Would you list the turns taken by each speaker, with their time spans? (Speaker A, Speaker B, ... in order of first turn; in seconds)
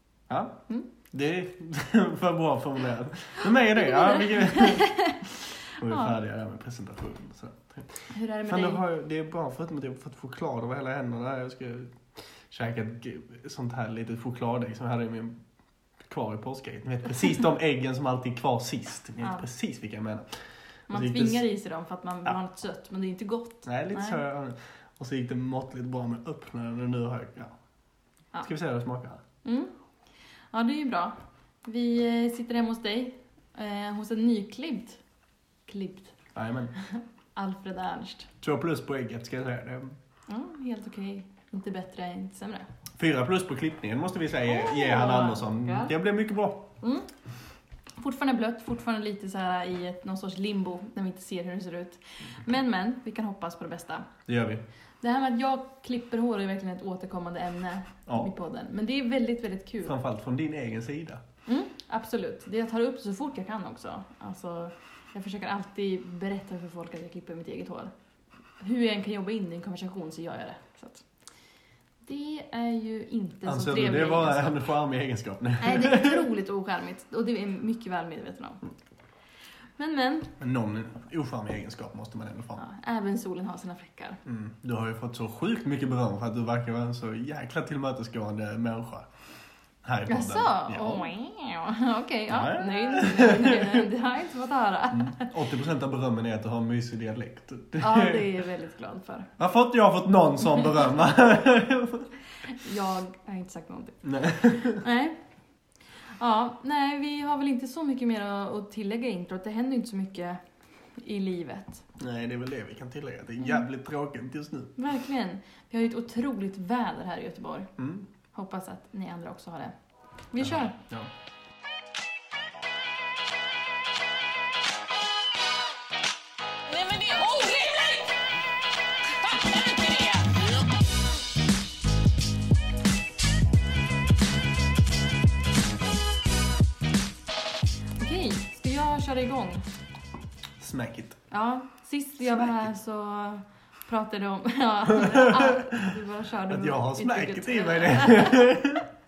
Speaker A: 0.3-0.6, 1.1-5.2, 5.8-15.4, 16.1-20.3, 20.9-21.4, 23.6-27.6, 28.4-29.2, 36.3-36.7, 38.4-40.0, 42.9-46.7, 54.3-54.6, 59.8-61.2, 73.5-76.3, 80.4-82.6, 84.2-89.1, 89.8-91.1, 92.3-93.8, 94.9-98.3, 99.4-102.1, 104.0-104.8, 112.0-114.7, 117.8-118.1, 120.4-121.1, 140.6-141.2, 142.2-142.7, 144.9-145.7, 146.5-148.8
Speaker B: 3.7-5.3, 5.8-6.1, 8.1-8.8, 19.2-19.4, 20.9-24.2, 29.4-29.7, 30.5-35.0, 35.6-36.2, 36.8-38.3, 40.3-42.7, 44.5-45.9, 46.8-47.1, 48.0-54.1, 55.0-59.9, 61.5-67.9, 68.6-71.0, 72.0-74.6, 75.6-78.6, 79.8-80.3, 82.6-84.2, 90.1-95.3, 97.8-99.3, 102.4-105.2, 106.2-110.4, 111.0-111.8, 114.8-117.7, 118.3-119.7, 120.3-120.8, 138.0-139.7, 141.3-148.7
Speaker C: 126.7-128.1, 129.5-130.2